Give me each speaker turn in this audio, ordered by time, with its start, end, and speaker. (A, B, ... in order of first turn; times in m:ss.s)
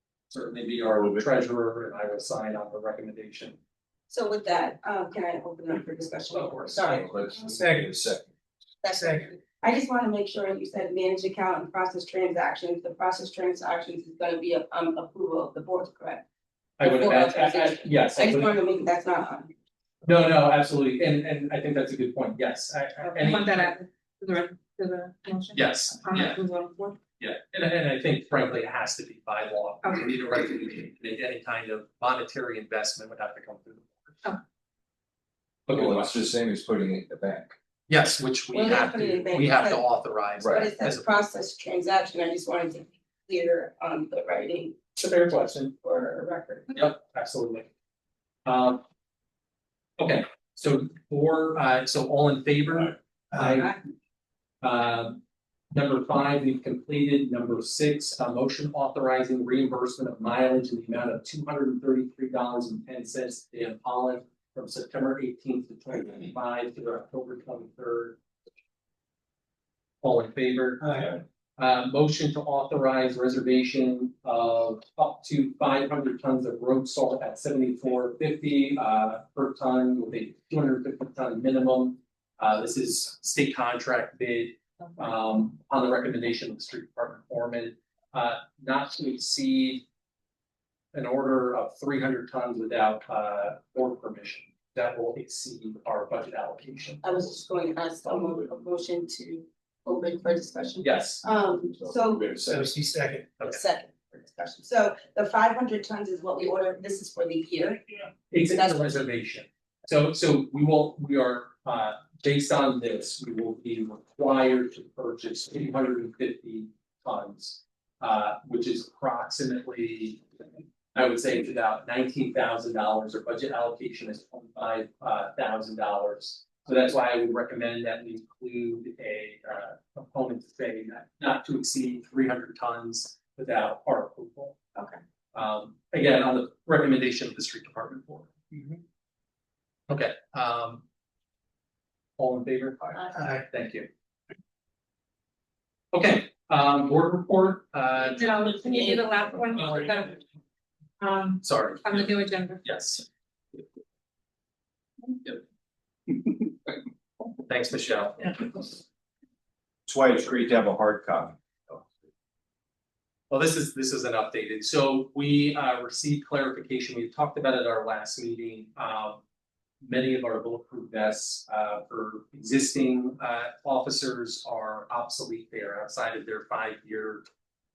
0:00.3-0:03.6 A
0:04.1-0:07.1 B
0:06.3-0:07.0 A
0:06.8-0:08.3 C
0:07.5-0:07.9 D
0:08.8-0:16.2 B
0:08.9-0:09.3 D
0:16.8-0:18.5 A
0:16.8-0:19.5 B
0:20.0-0:23.7 A
0:23.0-0:27.0 E
0:25.5-0:26.4 A
0:27.2-0:34.2 A
0:35.7-0:36.2 A
0:35.7-0:37.6 C
0:37.9-0:41.1 A
0:38.5-0:39.8 B
0:40.4-0:40.7 C
0:40.5-0:44.8 B
0:45.0-0:45.7 A
0:45.8-0:46.8 B
0:46.7-0:47.7 A
0:48.4-0:48.8 A
0:50.0-0:53.8 A
0:53.4-0:53.8 B
0:54.6-0:55.2 A
0:55.7-1:08.2 A
1:10.0-1:11.0 A
1:10.8-1:11.1 D
1:11.6-1:29.8 A
1:30.9-1:37.3 A
1:37.0-1:42.5 B
1:40.8-1:41.2 A
1:42.5-1:43.4 D
1:43.4-1:48.9 B
1:48.3-2:14.6 A
2:15.3-2:18.3 A
2:19.9-2:20.8 A
2:22.2-2:23.9 A
2:23.0-2:23.3 B
2:23.2-2:23.4 D
2:25.9-2:28.6 A
2:28.1-2:30.2 E
2:31.0-2:32.6 E
2:31.4-2:33.0 A
2:37.4-2:38.8 A
2:39.9-2:41.4 C
2:43.3-2:49.2 A
2:49.8-2:57.2 A